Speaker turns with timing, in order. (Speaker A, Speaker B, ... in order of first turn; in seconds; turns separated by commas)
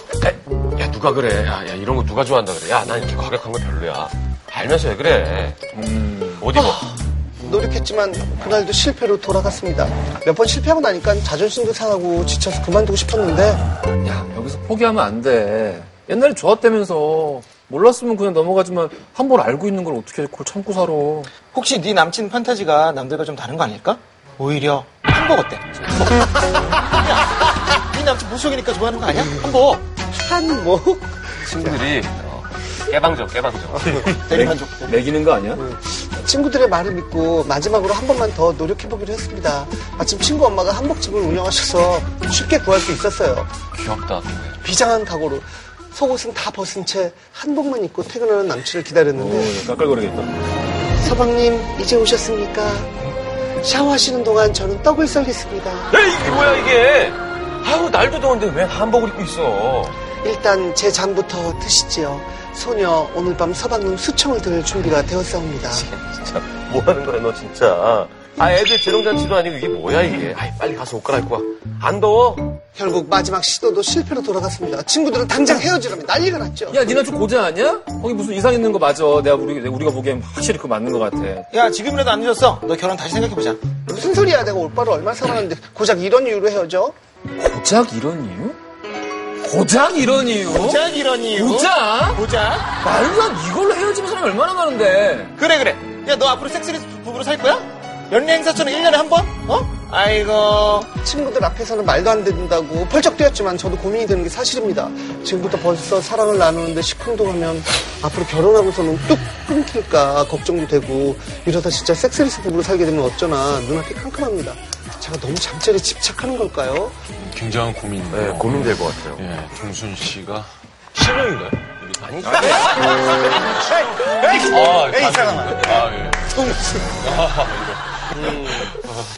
Speaker A: 0.2-5.6, Speaker B: 5.7-6.4, Speaker A: 6.4-6.8, Speaker C: 6.5-13.6, Speaker B: 14.0-21.3, Speaker D: 21.5-26.2, Speaker D: 26.8-29.9, Speaker C: 30.1-31.8, Speaker A: 31.4-34.1, Speaker D: 33.9-35.0, Speaker B: 34.3-35.6, Speaker C: 35.5-43.5, Speaker A: 43.7-44.6, Speaker C: 44.6-49.6, Speaker B: 49.1-50.4, Speaker C: 51.0-53.0, Speaker C: 53.6-55.9, Speaker A: 55.9-60.0, Speaker C: 60.2-65.9, Speaker A: 65.7-72.6, Speaker C: 72.7-76.9, Speaker B: 76.7-81.5, Speaker D: 81.5-83.6, Speaker C: 83.9-86.9, Speaker B: 87.3-88.6, Speaker B: 89.4-92.2, Speaker D: 90.5-92.8, Speaker B: 92.8-95.3, Speaker D: 95.3-101.0, Speaker C: 101.0-117.0, Speaker E: 117.1-122.9, Speaker A: 118.1-119.2, Speaker A: 122.0-123.3, Speaker E: 123.8-128.8, Speaker C: 124.0-125.8